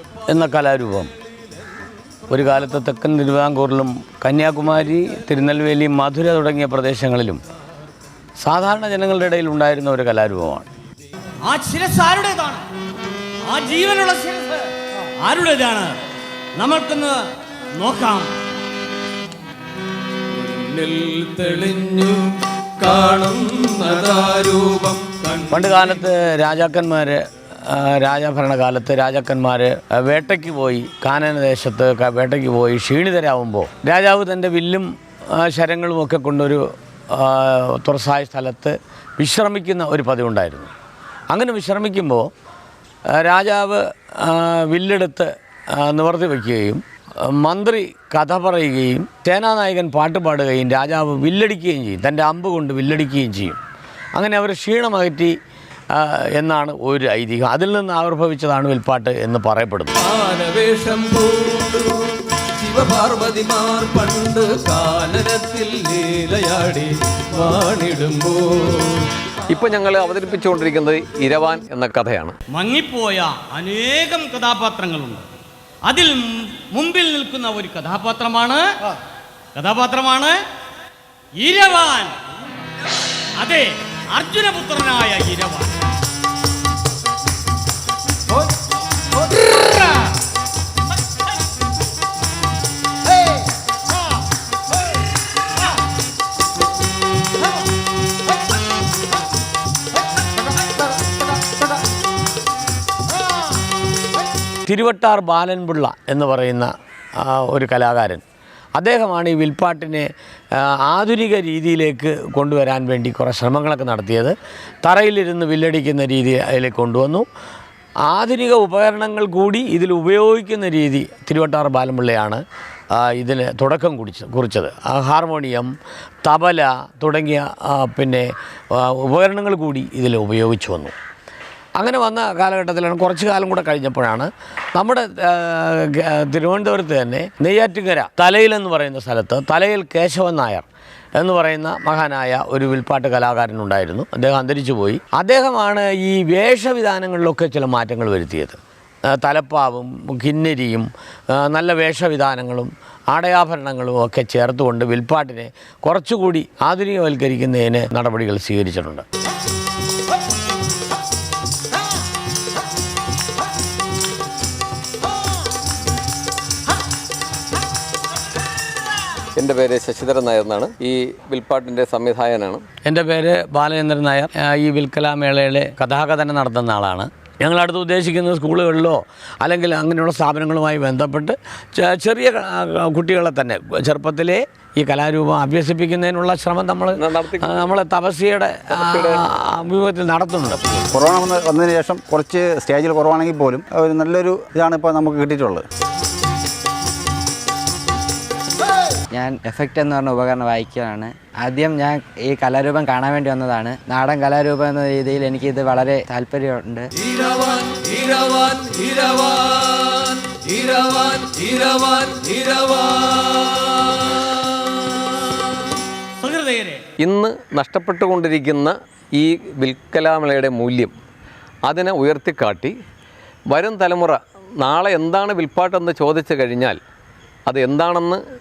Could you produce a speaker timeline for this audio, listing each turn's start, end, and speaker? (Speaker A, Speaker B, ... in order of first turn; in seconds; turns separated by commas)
Speaker A: 0.3-1.1, Speaker A: 2.3-7.4, Speaker A: 8.4-10.7, Speaker B: 11.4-12.7, Speaker B: 13.5-14.7, Speaker B: 15.2-15.9, Speaker B: 16.6-17.2, Speaker B: 17.8-18.3, Speaker C: 20.3-25.9, Speaker A: 25.5-40.7, Speaker A: 41.3-42.3, Speaker A: 43.1-53.6, Speaker A: 54.1-55.4, Speaker A: 55.9-59.9, Speaker C: 60.0-62.0, Speaker C: 62.6-69.1, Speaker D: 69.5-72.4, Speaker B: 72.5-75.2, Speaker B: 75.9-78.7, Speaker B: 79.6-80.4, Speaker B: 81.4-82.1, Speaker B: 83.4-85.7, Speaker A: 104.7-108.2, Speaker A: 108.8-117.3, Speaker A: 118.1-122.4, Speaker A: 122.9-125.7, Speaker A: 126.2-130.9, Speaker A: 131.8-148.6, Speaker A: 149.1-159.1, Speaker D: 169.4-172.7, Speaker A: 172.8-190.6, Speaker D: 187.0-187.8, Speaker D: 188.7-189.2, Speaker E: 190.9-195.7, Speaker F: 199.1-206.9, Speaker C: 207.0-215.1, Speaker B: 216.2-216.8, Speaker D: 217.0-220.9, Speaker D: 221.7-222.8, Speaker D: 223.5-226.8, Speaker D: 227.5-228.2